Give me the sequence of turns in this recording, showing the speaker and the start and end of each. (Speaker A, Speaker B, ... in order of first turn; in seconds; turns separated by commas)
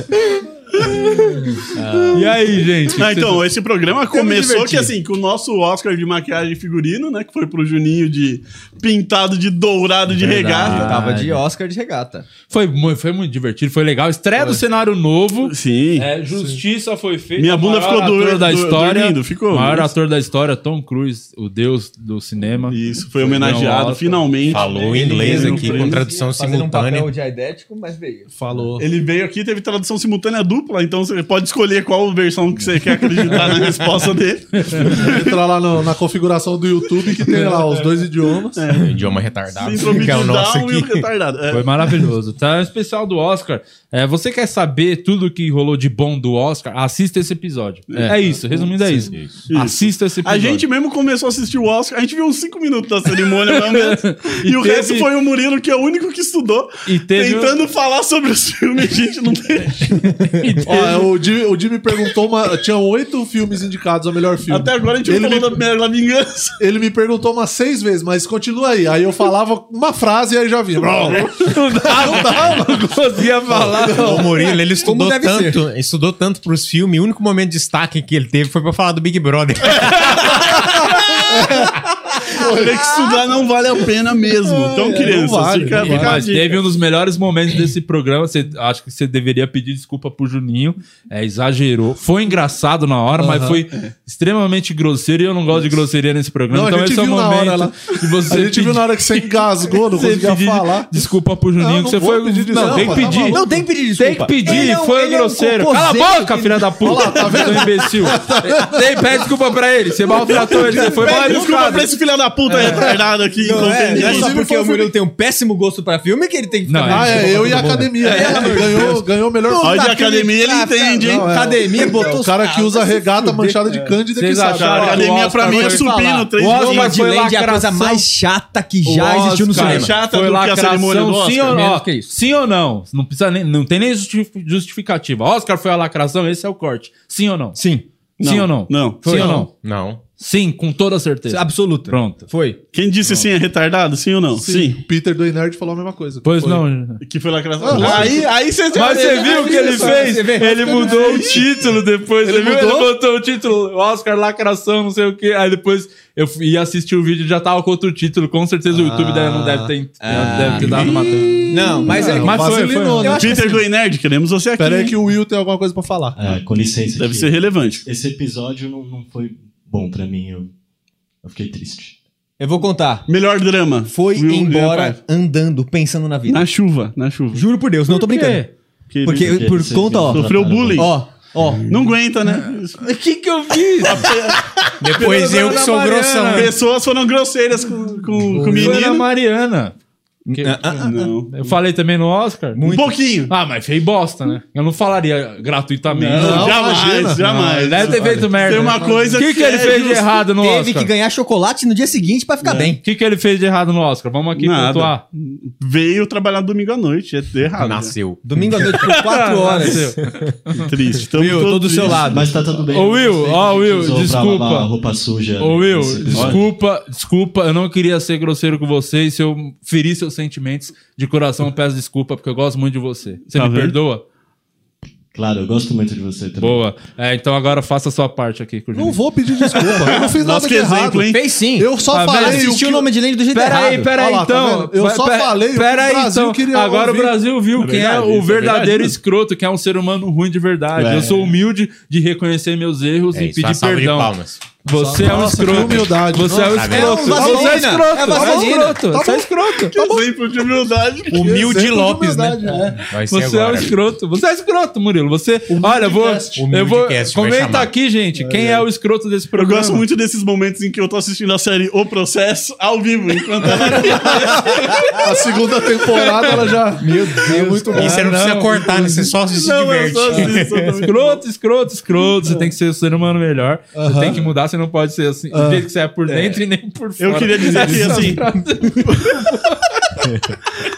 Speaker A: 2.1-3.4, Speaker B: 3.0-11.0, Speaker A: 4.2-4.9, Speaker C: 4.5-4.8, Speaker A: 10.2-11.4, Speaker C: 10.6-12.3, Speaker A: 12.5-24.3, Speaker B: 15.4-16.1, Speaker D: 16.3-16.6, Speaker B: 17.4-19.9, Speaker B: 22.7-26.1, Speaker E: 24.5-27.1, Speaker C: 24.5-28.7, Speaker D: 28.4-28.9, Speaker B: 28.8-35.3, Speaker D: 33.3-33.6, Speaker A: 34.6-34.9, Speaker D: 34.8-38.7, Speaker B: 38.6-39.0, Speaker E: 38.8-41.1, Speaker B: 39.5-41.9, Speaker A: 41.5-50.6, Speaker B: 47.9-48.2, Speaker E: 49.1-49.5, Speaker B: 49.5-60.1, Speaker A: 53.2-55.1, Speaker A: 56.9-57.6, Speaker A: 60.4-61.1, Speaker D: 60.6-65.6, Speaker B: 64.5-66.6, Speaker D: 66.6-74.4, Speaker A: 70.9-74.4, Speaker E: 73.7-81.2, Speaker C: 74.8-75.6, Speaker D: 81.2-82.8, Speaker B: 82.3-86.6, Speaker C: 84.5-85.2, Speaker D: 84.7-86.2, Speaker A: 85.8-103.4, Speaker D: 93.2-93.6, Speaker D: 96.5-100.9, Speaker D: 101.6-103.6, Speaker C: 102.5-108.8, Speaker A: 104.0-111.9, Speaker D: 106.8-108.8, Speaker B: 110.3-114.4, Speaker C: 110.4-111.8, Speaker C: 112.5-123.9, Speaker D: 113.5-114.9, Speaker A: 116.7-118.9, Speaker D: 116.9-119.8, Speaker B: 119.6-121.4, Speaker D: 121.0-125.6, Speaker A: 124.1-125.9, Speaker B: 124.6-127.0, Speaker C: 125.4-129.9, Speaker A: 126.4-128.1, Speaker A: 128.8-137.6, Speaker B: 129.5-131.6, Speaker C: 131.4-132.1, Speaker C: 137.6-137.8, Speaker B: 138.2-139.4, Speaker A: 138.2-139.5, Speaker C: 139.0-139.5, Speaker E: 139.6-140.0, Speaker A: 140.2-142.3, Speaker C: 141.3-142.6, Speaker B: 142.7-144.8, Speaker D: 144.4-146.6, Speaker A: 146.2-147.0, Speaker B: 147.0-150.0, Speaker D: 147.6-148.3, Speaker A: 147.7-148.2, Speaker C: 147.7-148.1, Speaker A: 148.7-163.4, Speaker C: 148.8-151.4, Speaker B: 151.0-151.4, Speaker D: 152.2-152.9, Speaker D: 158.8-159.7, Speaker C: 160.0-163.6, Speaker D: 161.9-163.5, Speaker B: 163.0-164.9, Speaker D: 164.6-166.2, Speaker F: 166.2-170.5, Speaker B: 167.0-167.8, Speaker F: 171.2-172.0, Speaker C: 172.4-173.1, Speaker B: 173.1-175.0, Speaker C: 173.9-176.4, Speaker B: 176.3-177.4, Speaker C: 177.3-178.4, Speaker A: 177.9-178.5, Speaker B: 178.9-181.1, Speaker C: 179.1-181.7, Speaker F: 179.2-181.0, Speaker B: 181.7-182.8, Speaker A: 182.4-184.1, Speaker B: 183.8-185.7, Speaker E: 184.8-186.5, Speaker A: 185.1-186.5, Speaker B: 186.3-189.1, Speaker D: 188.3-188.8, Speaker A: 188.6-189.8, Speaker C: 190.3-191.1, Speaker A: 190.3-192.7, Speaker B: 190.8-191.5, Speaker C: 192.5-193.0, Speaker B: 192.7-193.3, Speaker A: 193.3-196.6, Speaker B: 196.0-200.2, Speaker D: 196.1-199.2, Speaker A: 197.6-200.9, Speaker C: 200.4-202.8, Speaker B: 202.4-202.7, Speaker A: 202.8-205.0, Speaker B: 204.4-207.9, Speaker E: 207.6-208.9, Speaker C: 208.2-210.0, Speaker A: 208.8-210.7, Speaker B: 210.6-212.3, Speaker C: 211.2-212.4, Speaker F: 211.8-216.5, Speaker A: 212.7-214.7, Speaker C: 212.9-213.6, Speaker A: 215.4-224.0, Speaker B: 216.1-216.4, Speaker B: 223.3-223.8, Speaker F: 225.1-226.6, Speaker A: 226.4-229.0, Speaker D: 228.7-232.9, Speaker B: 229.8-231.2, Speaker C: 231.1-233.9, Speaker A: 231.9-232.6, Speaker A: 233.3-249.8, Speaker D: 233.9-237.2, Speaker B: 237.6-239.0, Speaker B: 240.8-241.3, Speaker E: 243.1-244.6, Speaker D: 244.7-249.3, Speaker E: 245.3-247.2, Speaker C: 246.7-248.9, Speaker B: 249.7-251.4, Speaker E: 251.1-253.8, Speaker D: 251.2-252.9, Speaker A: 253.1-259.8, Speaker D: 255.5-256.4, Speaker E: 256.4-257.8, Speaker D: 258.3-258.5, Speaker B: 259.4-264.9, Speaker D: 263.7-269.1, Speaker C: 263.8-264.9, Speaker A: 263.9-265.0, Speaker C: 266.4-268.1, Speaker E: 267.7-270.8, Speaker A: 267.8-268.6, Speaker B: 269.3-271.2, Speaker A: 270.8-280.0, Speaker D: 273.8-274.2, Speaker D: 275.3-275.7, Speaker B: 277.0-278.2, Speaker D: 277.6-278.1, Speaker B: 278.9-279.3